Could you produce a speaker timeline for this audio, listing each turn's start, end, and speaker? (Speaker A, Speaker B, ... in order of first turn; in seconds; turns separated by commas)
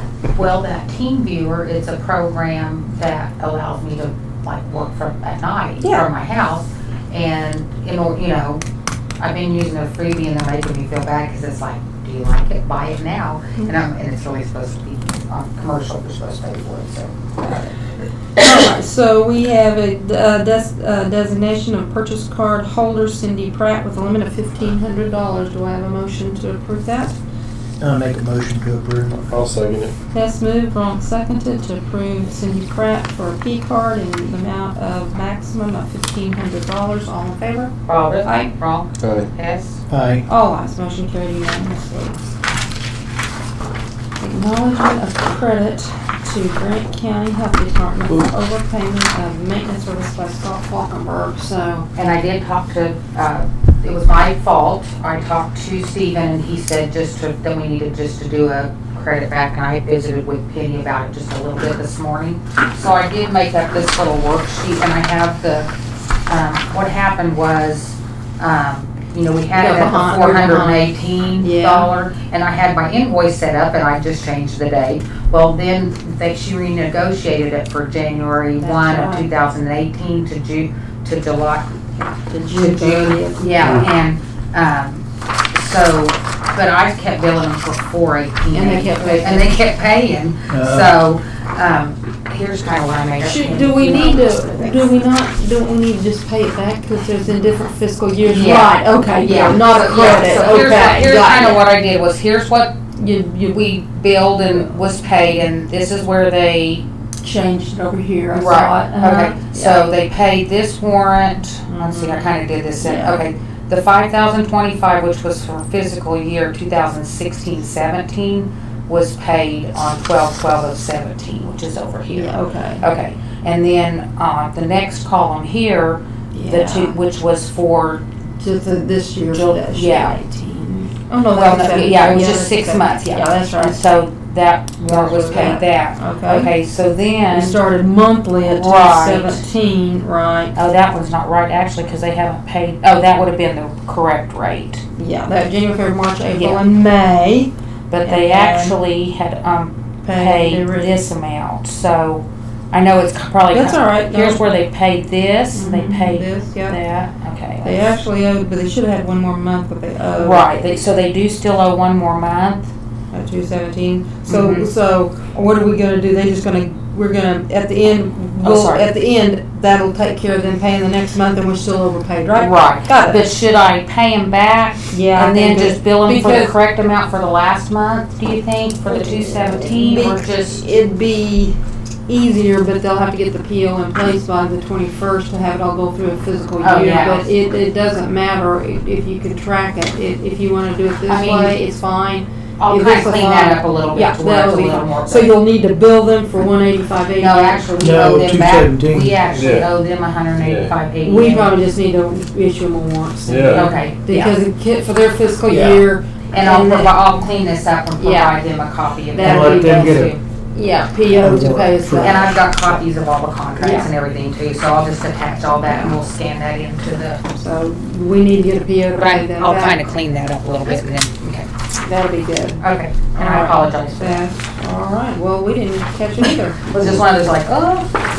Speaker A: 0.3-8.6, Speaker A: 9.2-17.8, Speaker B: 18.4-27.1, Speaker C: 27.8-29.3, Speaker D: 29.2-29.9, Speaker B: 30.1-37.7, Speaker A: 37.9-39.8, Speaker B: 38.2-38.5, Speaker D: 39.0-39.3, Speaker C: 39.9-40.2, Speaker B: 40.3-42.2, Speaker B: 44.2-51.9, Speaker A: 51.9-65.7, Speaker A: 66.3-81.7, Speaker B: 69.5-71.9, Speaker B: 78.6-79.2, Speaker B: 82.0-83.7, Speaker A: 82.5-94.9, Speaker B: 88.5-89.5, Speaker C: 90.5-91.0, Speaker B: 93.2-101.7, Speaker A: 98.2-106.8, Speaker B: 102.9-103.5, Speaker B: 107.2-109.8, Speaker A: 108.3-128.0, Speaker B: 111.7-113.2, Speaker B: 122.1-122.8, Speaker B: 126.3-126.9, Speaker B: 128.4-133.8, Speaker A: 129.3-130.2, Speaker A: 131.3-137.6, Speaker B: 134.8-136.5, Speaker B: 137.3-140.5, Speaker A: 138.4-139.4, Speaker A: 140.5-144.8, Speaker B: 145.0-147.5, Speaker A: 146.3-146.6, Speaker A: 147.9-158.0, Speaker B: 148.0-148.8, Speaker B: 150.0-151.0, Speaker B: 153.5-154.4, Speaker B: 155.5-156.8, Speaker B: 157.6-160.5, Speaker A: 160.1-162.7, Speaker B: 163.1-173.2, Speaker A: 164.2-164.7, Speaker A: 168.4-168.8, Speaker A: 172.3-180.6, Speaker B: 174.9-176.5, Speaker B: 179.7-181.5, Speaker B: 182.1-197.6, Speaker A: 186.6-187.3, Speaker A: 191.1-191.6, Speaker A: 192.6-195.3, Speaker A: 197.2-201.5, Speaker C: 197.8-199.2, Speaker D: 199.3-199.7, Speaker D: 200.4-200.7, Speaker B: 201.0-207.2, Speaker D: 203.3-203.7, Speaker A: 203.5-204.3, Speaker C: 205.5-205.8, Speaker A: 206.3-210.2, Speaker B: 208.0-208.3, Speaker B: 209.1-212.3, Speaker C: 209.2-210.1, Speaker C: 211.2-212.2, Speaker A: 212.0-217.2, Speaker B: 213.6-213.9, Speaker B: 215.6-216.0, Speaker B: 217.3-219.8, Speaker A: 219.0-221.5, Speaker B: 221.8-222.6, Speaker A: 222.6-224.2, Speaker B: 223.2-226.6, Speaker A: 226.7-227.9